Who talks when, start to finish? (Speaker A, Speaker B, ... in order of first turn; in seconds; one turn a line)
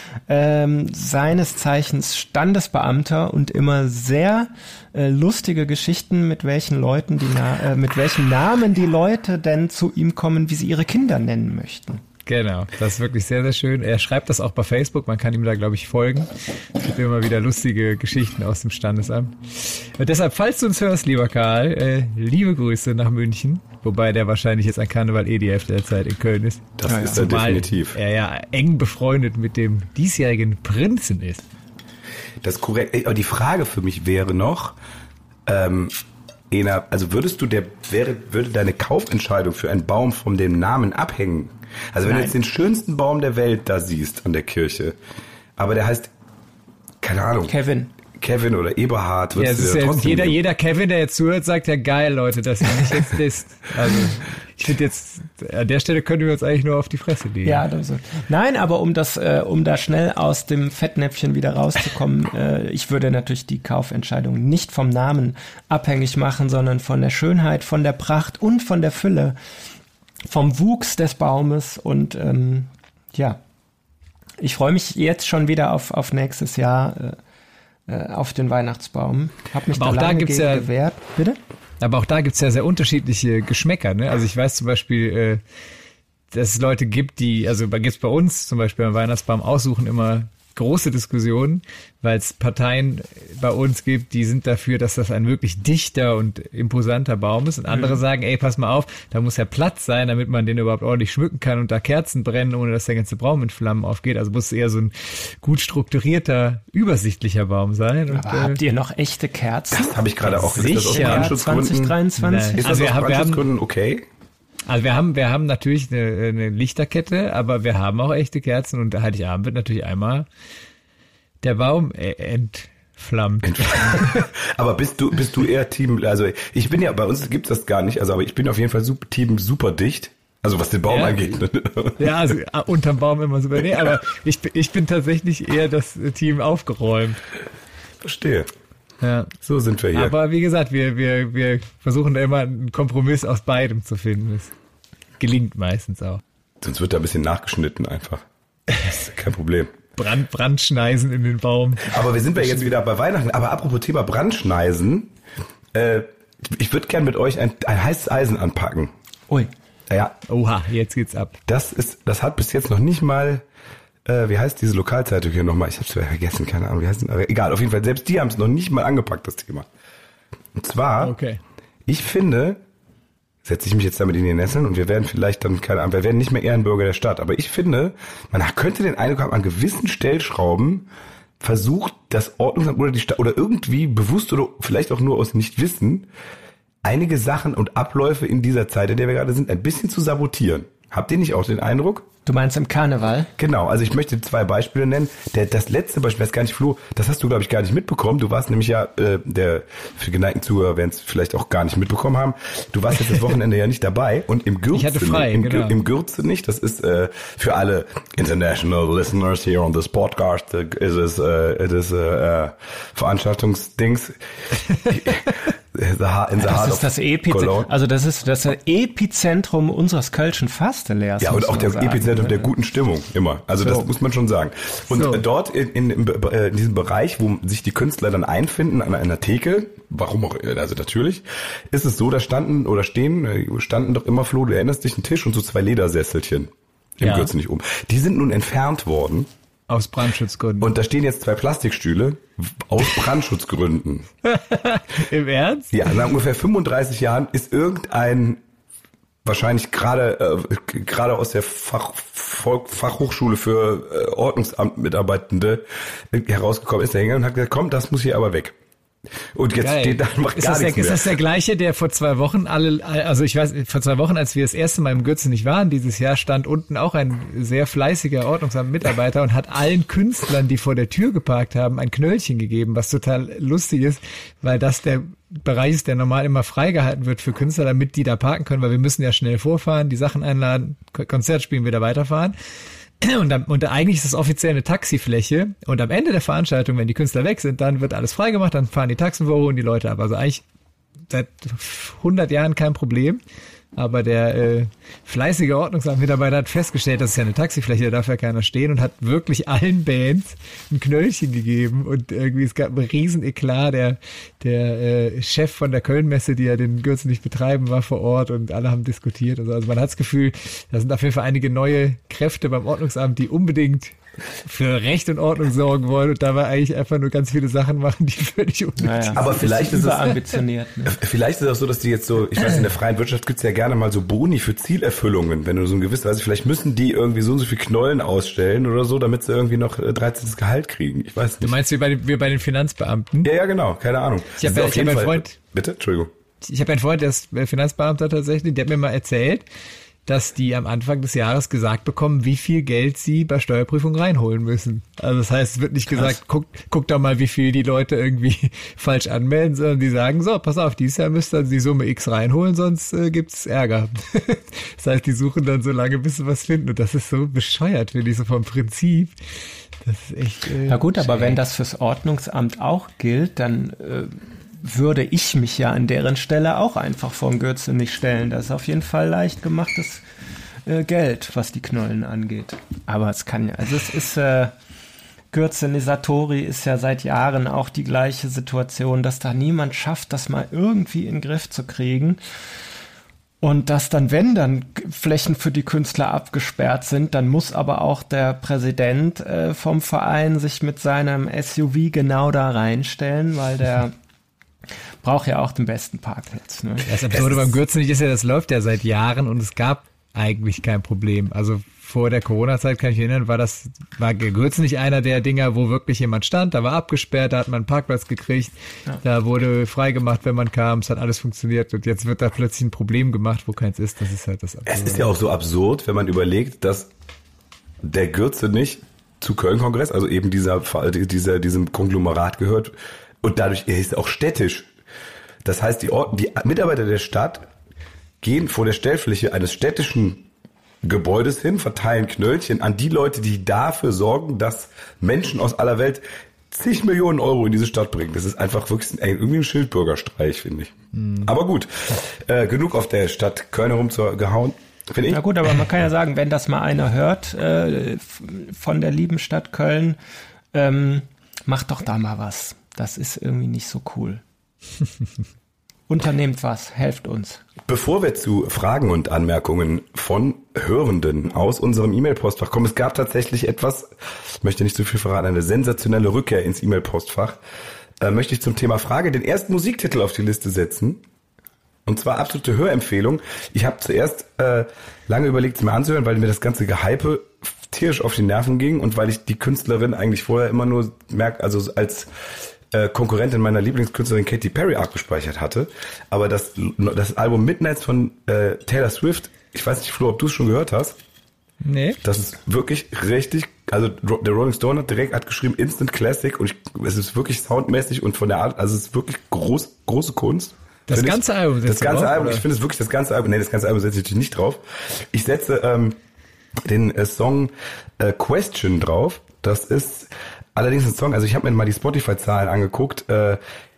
Speaker A: 0.3-12.0
Speaker B: 12.2-31.4
Speaker C: 26.8-28.0
Speaker A: 26.8-27.2
Speaker C: 32.4-34.8
Speaker C: 35.5-35.9
Speaker C: 36.5-45.0
Speaker A: 42.0-42.3
Speaker C: 45.6-46.1
Speaker C: 47.0-47.5
Speaker A: 47.5-47.9
Speaker C: 48.1-50.4
Speaker B: 49.3-57.6
Speaker A: 57.4-69.4
Speaker A: 70.2-73.4
Speaker A: 74.4-77.2
Speaker A: 77.9-81.4
Speaker B: 79.7-80.7
Speaker B: 81.8-85.4
Speaker B: 86.3-108.6
Speaker A: 97.7-98.0
Speaker A: 108.1-112.7
Speaker C: 109.7-112.0
Speaker B: 110.3-111.3
Speaker B: 112.2-113.5
Speaker C: 112.6-114.0
Speaker B: 114.7-120.3
Speaker B: 121.4-124.3
Speaker C: 123.4-132.1
Speaker B: 130.9-131.2
Speaker B: 132.0-137.2
Speaker C: 138.0-138.5
Speaker B: 139.0-139.3
Speaker C: 139.4-140.2
Speaker B: 139.9-144.5
Speaker B: 145.2-146.2
Speaker C: 146.6-148.2
Speaker B: 148.7-148.9
Speaker C: 148.8-149.7
Speaker B: 150.0-152.0
Speaker C: 151.8-155.1
Speaker C: 155.7-158.9
Speaker C: 159.9-160.2
Speaker B: 160.3-161.4
Speaker C: 161.5-163.4
Speaker C: 164.0-169.7
Speaker C: 170.5-171.2
Speaker B: 171.0-171.4
Speaker C: 171.9-172.6
Speaker C: 173.4-180.9
Speaker C: 181.4-186.1
Speaker C: 186.8-192.1
Speaker A: 192.2-193.3
Speaker C: 193.4-214.2
Speaker B: 204.7-205.8
Speaker C: 214.8-217.7
Speaker A: 216.4-222.5
Speaker C: 221.2-239.3
Speaker B: 224.9-225.2
Speaker B: 237.0-237.3
Speaker B: 239.7-240.7
Speaker C: 240.6-244.1
Speaker B: 244.2-245.9
Speaker C: 245.7-248.4
Speaker C: 249.2-258.6
Speaker C: 259.3-261.2
Speaker B: 259.6-282.4
Speaker B: 283.0-290.4
Speaker B: 291.1-293.2
Speaker B: 293.8-319.3
Speaker A: 318.8-321.0
Speaker C: 319.1-320.2
Speaker C: 320.8-331.5
Speaker B: 331.4-333.3
Speaker C: 333.2-336.1
Speaker B: 334.4-335.3
Speaker B: 336.4-339.4
Speaker B: 340.1-359.1
Speaker B: 359.8-361.4
Speaker A: 360.7-370.0
Speaker A: 370.6-374.5
Speaker A: 375.3-382.2
Speaker A: 383.4-393.9
Speaker A: 395.0-396.9
Speaker B: 396.9-415.1
Speaker C: 414.7-416.9
Speaker C: 417.8-424.7
Speaker C: 425.4-427.5
Speaker C: 428.2-430.2
Speaker C: 430.8-445.2
Speaker A: 445.1-450.0
Speaker A: 450.5-454.2
Speaker A: 455.9-457.4
Speaker C: 457.6-467.4
Speaker C: 468.0-471.0
Speaker C: 471.9-490.9
Speaker B: 491.6-492.0
Speaker C: 492.0-506.0
Speaker B: 500.9-502.4
Speaker C: 506.6-513.4